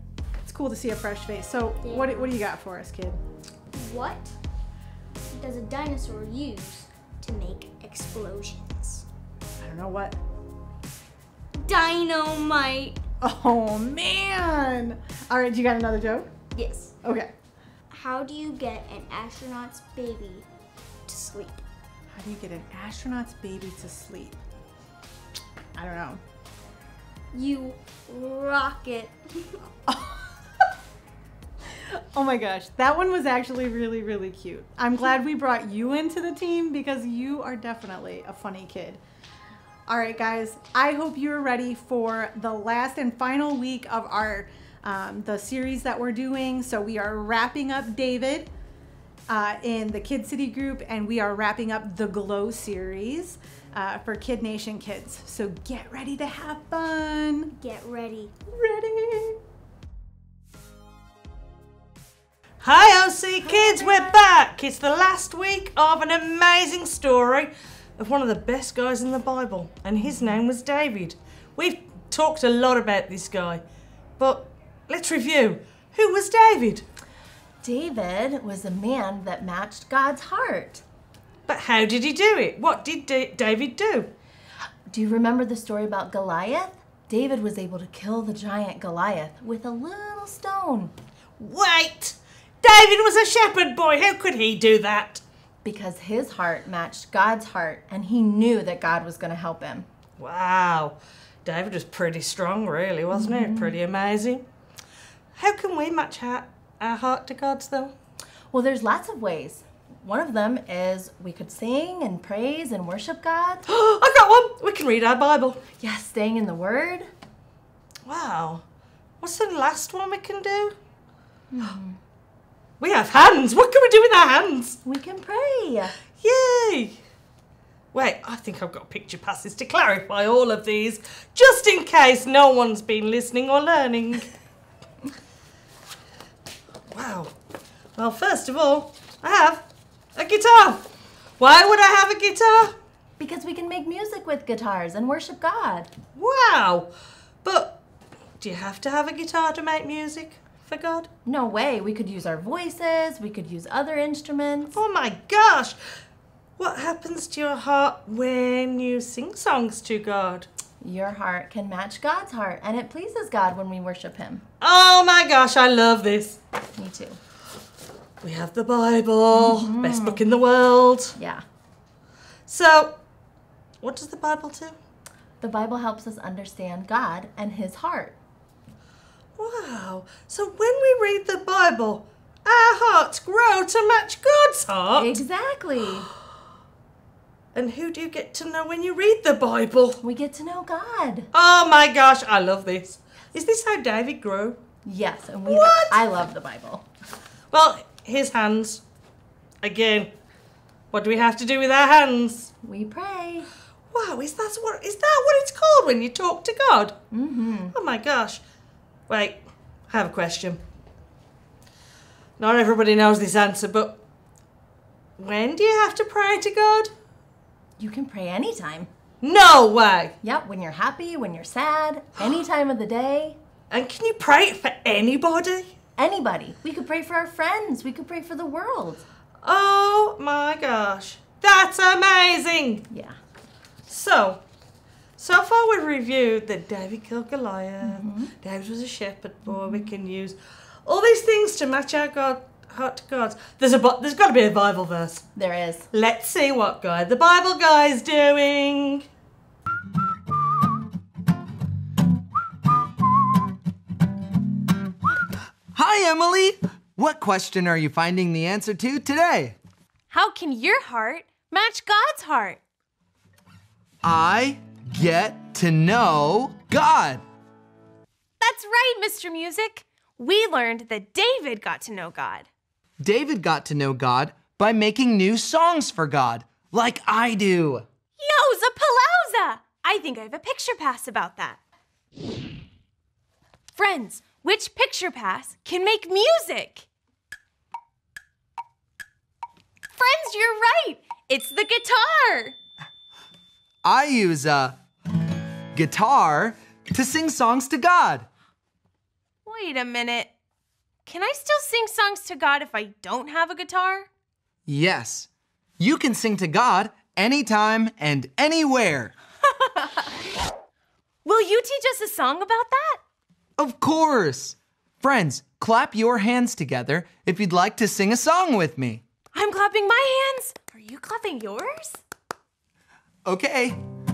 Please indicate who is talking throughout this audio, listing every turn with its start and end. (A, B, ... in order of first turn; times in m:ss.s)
0:00.4-0:03.2 A
0:01.8-0:02.4 B
0:03.7-0:04.3 B
0:05.3-0:09.0 B
0:09.6-0:10.2 A
0:11.6-0:13.0 B
0:13.2-0:16.3 A
0:16.5-0:16.9 B
0:17.0-0:17.3 A
0:17.9-0:20.5 B
0:21.0-0:21.6 B
0:22.1-0:24.4 A
0:25.7-0:26.2 A
0:27.3-0:29.6 B
0:29.9-0:30.3 A
0:31.9-0:39.0 A
0:39.9-0:48.5 A
0:49.3-0:57.5 A
0:57.5-0:58.3 B
0:58.5-0:59.4 A
1:02.6-1:13.6 C
1:03.7-1:04.1 B
1:14.2-1:16.8 C
1:17.6-1:20.8 D
1:21.5-1:24.1 C
1:24.9-1:30.9 D
1:31.4-1:35.2 C
1:35.6-1:39.9 D
1:40.2-1:44.4 C
1:43.1-1:43.8 D
1:45.3-1:47.9 C
1:48.5-1:53.6 D
1:53.7-1:55.6 C
1:55.8-1:57.1 D
1:58.0-1:58.6 C
1:59.2-2:00.8 C
2:01.5-2:02.0 D
2:02.8-2:04.8 C
2:04.8-2:05.9 D
2:06.1-2:07.0 C
2:07.9-2:14.3 C
2:16.9-2:17.3 C
2:18.0-2:20.8 C
2:21.4-2:22.8 C
2:23.2-2:25.9 D
2:26.1-2:26.9 C
2:27.4-2:27.8 C
2:28.4-2:31.1 C
2:31.2-2:34.8 D
2:34.7-2:35.8 C
2:36.6-2:40.5 C
2:40.8-2:44.4 D
2:44.6-2:46.4 C
2:46.7-2:47.2 D
2:48.2-2:51.2 C
2:49.3-2:50.2 D
2:51.2-2:51.4 D
2:52.5-2:53.0 C
2:53.8-2:54.8 C
2:55.4-2:58.2 D
2:59.4-3:05.2 C
3:04.9-3:06.1 D
3:07.5-3:10.0 C
3:10.0-3:11.3 D
3:11.3-3:14.6 C
3:14.8-3:16.8 D
3:15.4-3:16.0 C
3:17.5-3:18.8 C
3:19.6-3:20.1 C
3:20.9-3:22.5 C
3:22.6-3:23.5 D
3:23.9-3:27.0 C
3:27.1-3:27.7 D
3:27.7-3:28.4 C
3:29.1-3:30.6 C
3:32.4-3:34.0 C
3:35.2-3:36.9 C
3:37.8-3:38.9 D
3:39.2-3:40.1 C
3:40.2-3:43.4 D
3:43.7-3:45.7 C
3:46.0-3:49.0 D
3:49.4-3:52.8 C
3:52.9-3:53.2 D
3:53.9-3:54.4 C
3:55.2-4:05.3 C
3:57.8-3:58.3 D
4:05.4-4:05.9 D
4:05.9-4:09.1 C
4:15.7-4:19.6 E
4:20.1-4:22.6 F
4:24.0-4:27.2 E
4:28.4-4:32.5 F
4:33.0-4:37.8 E
4:38.2-4:41.6 F
4:43.8-4:46.9 F
4:49.9-4:52.6 F
4:53.8-4:54.8 E
4:55.7-4:58.3 E
4:59.4-5:00.3 F
5:01.0-5:04.1 F
5:04.6-5:09.1 E
5:11.2-5:13.0 F
5:13.6-5:19.0 E
5:19.3-5:22.0 F
5:23.2-5:23.8 E